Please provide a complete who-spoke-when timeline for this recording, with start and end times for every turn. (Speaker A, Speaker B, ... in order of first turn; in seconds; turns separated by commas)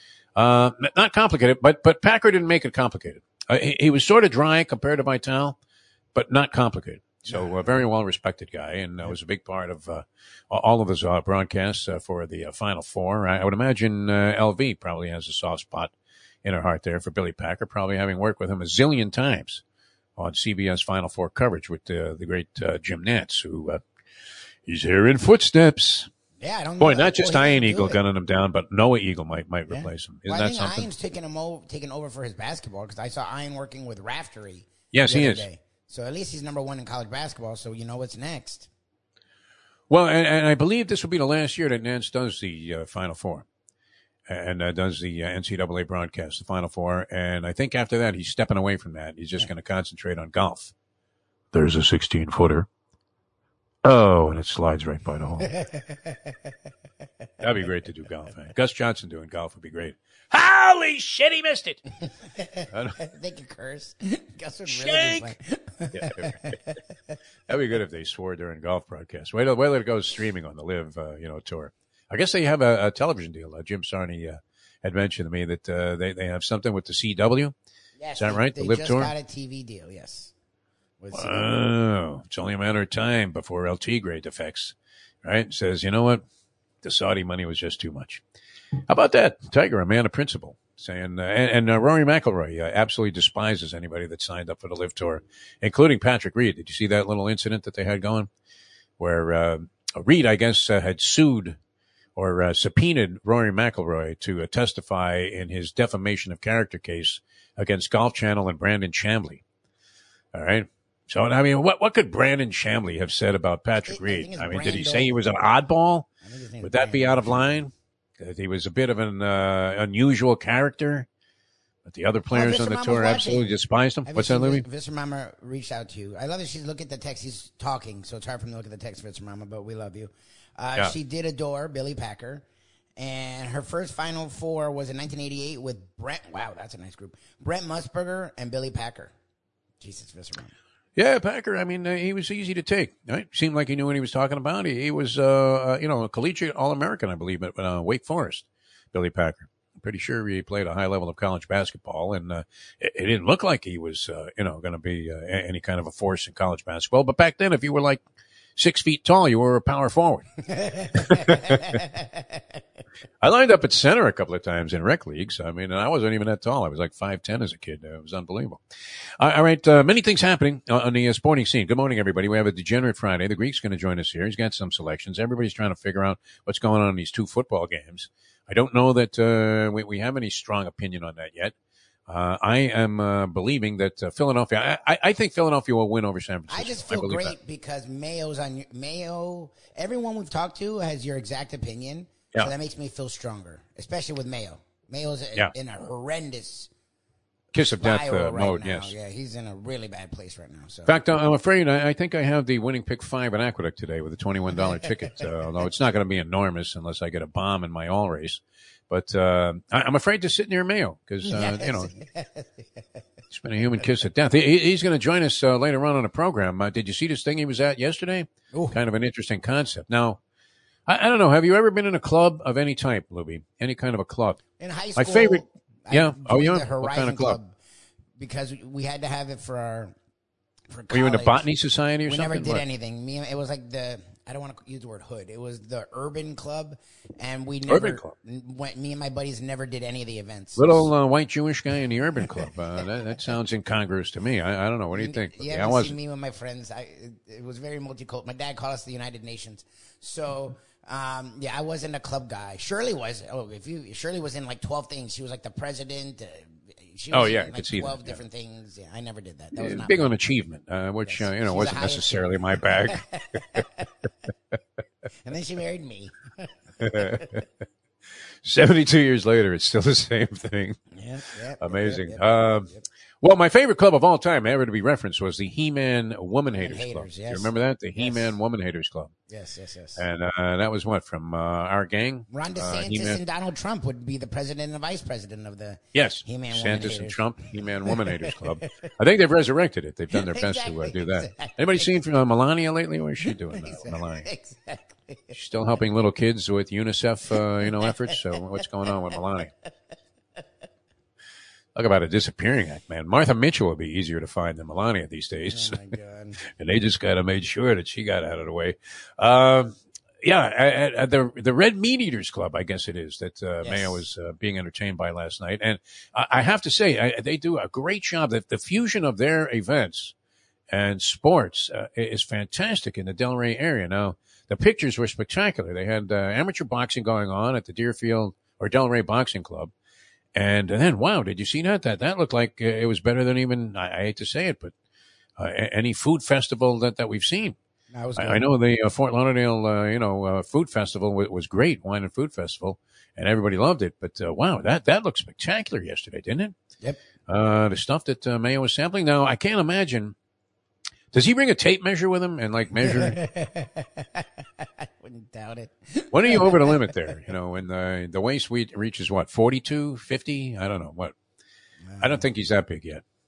Speaker A: 0.3-5.6, Speaker A: 6.1-15.9, Speaker B: 7.3-7.7, Speaker A: 16.4-19.6, Speaker A: 20.2-23.8, Speaker A: 24.6-26.1, Speaker B: 26.4-28.0, Speaker A: 26.8-30.9, Speaker B: 29.7-38.7, Speaker A: 34.9-35.5, Speaker A: 39.9-43.5, Speaker A: 44.3-50.7, Speaker A: 51.5-52.7, Speaker A: 53.8-55.5, Speaker B: 55.4-56.5, Speaker A: 57.4-61.8, Speaker B: 62.4-66.8, Speaker A: 62.7-63.0, Speaker A: 64.7-65.3, Speaker A: 65.9-66.6, Speaker A: 67.5-77.5, Speaker B: 78.0-80.3, Speaker A: 78.2-79.1, Speaker B: 81.0-81.5, Speaker A: 81.1-86.2, Speaker A: 86.8-88.2, Speaker A: 88.9-98.3, Speaker A: 99.0-101.6, Speaker A: 102.2-109.4, Speaker A: 110.3-116.1, Speaker B: 113.8-115.2, Speaker B: 116.2-117.4, Speaker A: 116.6-121.1, Speaker A: 121.8-124.6, Speaker B: 122.3-132.4, Speaker B: 133.0-139.1, Speaker B: 139.8-140.5, Speaker A: 140.9-158.0, Speaker A: 158.6-161.8, Speaker B: 160.5-162.4, Speaker A: 163.2-168.6, Speaker A: 169.2-181.5, Speaker A: 182.1-187.3, Speaker B: 186.5-196.7, Speaker A: 197.5-198.9, Speaker B: 197.7-201.0, Speaker A: 200.8-211.9, Speaker B: 204.5-205.2, Speaker B: 211.2-212.8, Speaker A: 213.3-220.2, Speaker B: 218.5-218.8, Speaker A: 220.8-224.4, Speaker B: 224.6-227.6, Speaker A: 224.9-227.4, Speaker B: 228.2-229.9, Speaker B: 230.7-231.5, Speaker A: 230.9-232.6, Speaker B: 232.0-240.9, Speaker A: 237.7-238.1, Speaker A: 240.6-245.9, Speaker B: 244.9-260.1, Speaker A: 257.1-258.2, Speaker A: 259.5-263.0, Speaker B: 261.0-263.9, Speaker B: 265.2-267.3, Speaker A: 266.8-267.4, Speaker A: 268.4-270.8, Speaker B: 270.9-272.9, Speaker A: 271.6-272.7, Speaker A: 273.2-279.1, Speaker B: 276.5-278.4, Speaker B: 279.3-280.0, Speaker A: 279.9-283.2, Speaker B: 282.3-288.9, Speaker A: 285.9-294.3, Speaker B: 290.1-291.9, Speaker B: 293.2-295.4, Speaker A: 295.3-299.5, Speaker B: 297.3-299.7, Speaker A: 301.7-305.8, Speaker B: 305.5-306.4, Speaker A: 306.4-320.1, Speaker B: 313.6-314.0, Speaker A: 320.7-329.7, Speaker A: 330.3-334.7, Speaker A: 335.4-337.6, Speaker B: 337.9-338.5, Speaker A: 338.1-346.5, Speaker A: 347.3-350.1, Speaker A: 351.1-353.2, Speaker B: 352.8-356.9, Speaker A: 356.1-361.1, Speaker B: 361.8-362.2, Speaker A: 362.0-363.0